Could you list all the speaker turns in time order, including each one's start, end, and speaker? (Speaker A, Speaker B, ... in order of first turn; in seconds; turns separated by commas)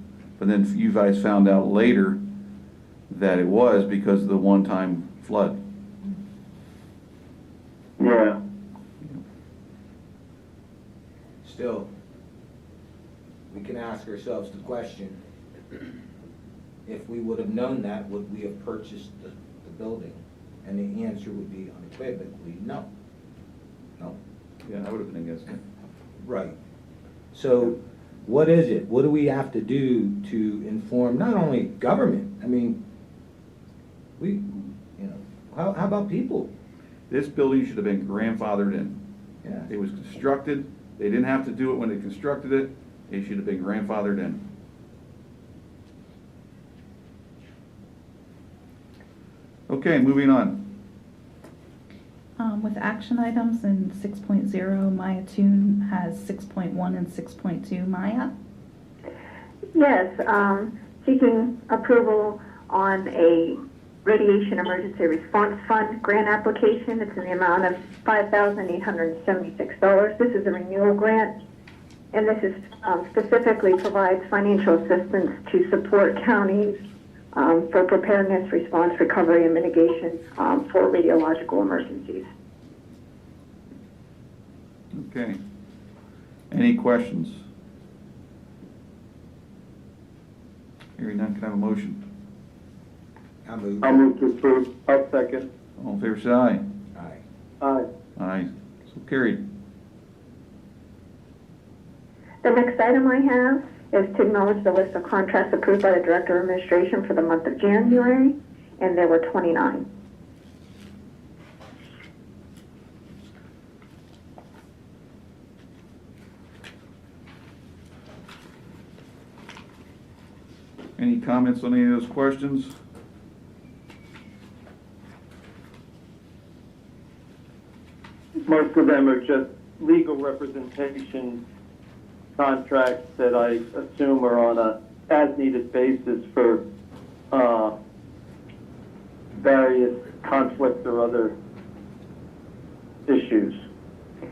Speaker A: 0.4-2.2, Speaker A: 3.1-5.6, Speaker B: 8.0-8.4, Speaker C: 11.4-11.9, Speaker C: 13.5-15.2, Speaker C: 16.9-22.9, Speaker A: 24.6-25.6, Speaker C: 26.2-26.5, Speaker C: 27.3-32.8, Speaker C: 34.2-36.5, Speaker A: 37.1-39.0, Speaker A: 39.7-44.4, Speaker A: 49.7-50.6, Speaker D: 52.4-58.3, Speaker E: 59.7-71.3, Speaker E: 72.1-76.7, Speaker E: 77.3-82.3, Speaker A: 84.9-85.4, Speaker A: 86.5-87.4, Speaker A: 91.0-92.0, Speaker C: 93.4-94.0, Speaker B: 93.8-95.5, Speaker A: 95.8-96.6, Speaker C: 96.9-97.2, Speaker B: 97.6-97.8, Speaker A: 98.2-99.4, Speaker E: 102.4-109.8, Speaker A: 121.0-122.8, Speaker B: 128.4-131.4, Speaker B: 132.4-136.6, Speaker B: 137.3-137.7, Speaker B: 139.3-141.3, Speaker B: 143.1-143.6